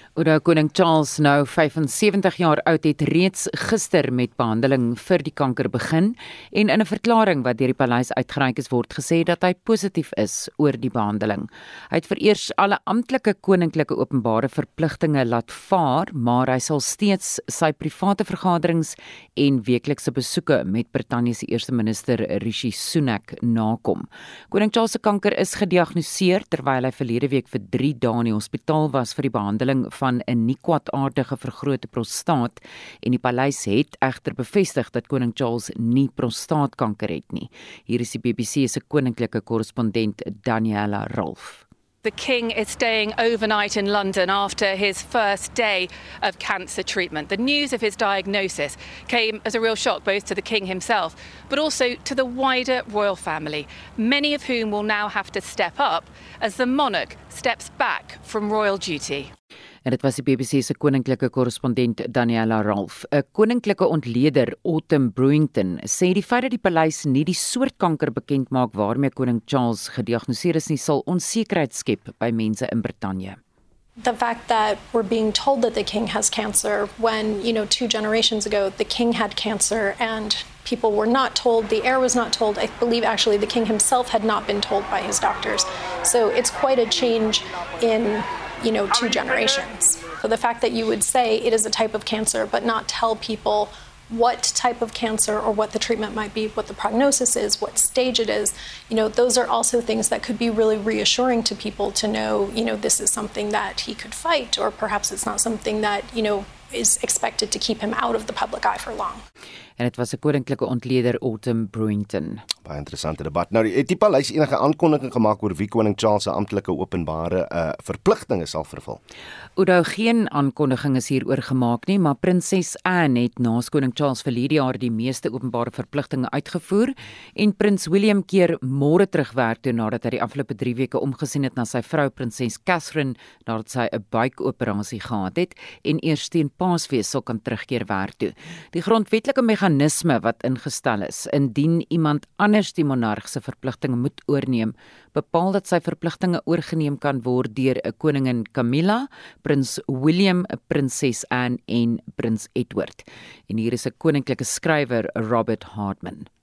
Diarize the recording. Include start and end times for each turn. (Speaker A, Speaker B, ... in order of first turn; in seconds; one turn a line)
Speaker A: 0.2-41.6
Speaker B: 42.0-59.3
Speaker A: 59.9-73.4
Speaker C: 74.0-109.2
Speaker A: 109.8-112.4
Speaker D: 112.7-119.0
Speaker A: 119.6-156.3